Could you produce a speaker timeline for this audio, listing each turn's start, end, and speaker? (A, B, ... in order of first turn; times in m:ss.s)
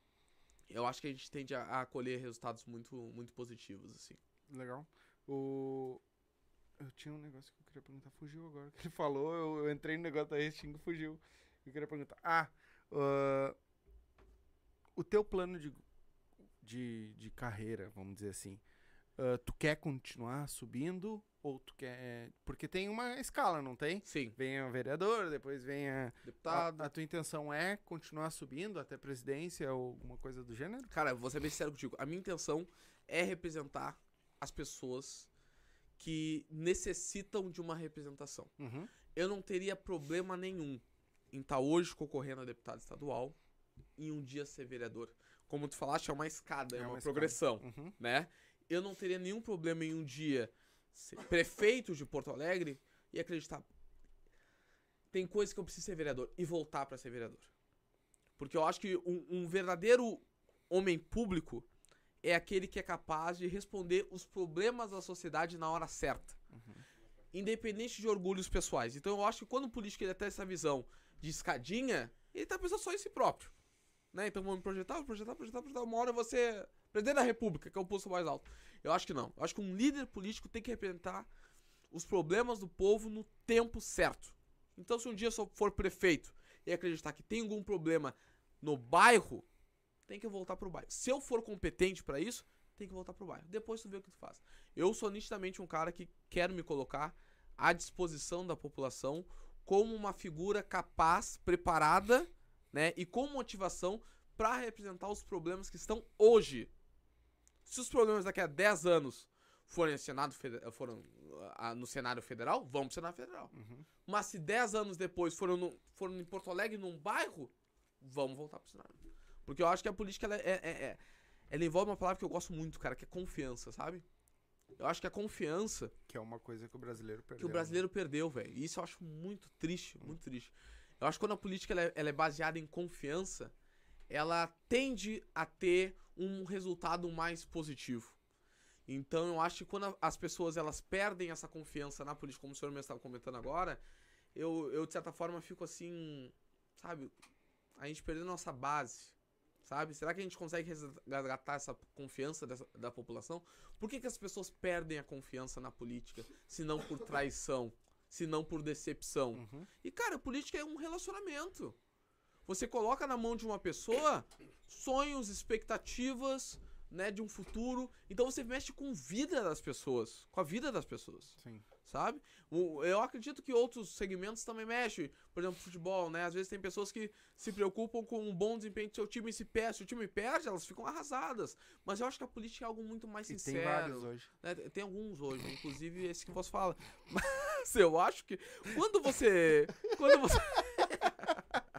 0:00.7-0:04.2 A
0:04.5-0:06.0 B
0:06.8-0:13.6 B
0:15.0-0:15.8 B
0:16.6-0:18.6 B
0:19.2-0:30.9 B
0:24.0-0:24.4 A
0:26.2-0:26.9 A
0:30.9-0:35.3 A
0:36.0-0:38.5 A
0:38.6-0:38.9 B
0:39.1-0:43.4 A
0:44.0-0:53.6 A
0:46.7-0:47.9 B
0:55.1-0:57.5 A
0:58.4-1:01.7 A
1:02.2-1:06.4 A
1:06.5-1:06.8 B
1:07.3-1:13.5 A
1:14.1-1:21.3 A
1:21.9-1:29.4 A
1:30.1-1:46.7 A
1:47.6-1:53.5 A
1:53.5-1:53.8 B
1:54.1-2:01.0 A
2:01.5-2:04.0 A
2:04.8-2:05.9 A
2:06.1-2:07.8 B
2:07.4-2:13.5 A
2:14.1-2:18.2 A
2:18.9-2:23.8 A
2:24.4-2:27.1 A
2:27.8-2:41.8 A
2:39.4-2:39.7 B
2:42.4-3:11.6 A
2:51.4-2:51.6 B
3:03.3-3:04.3 B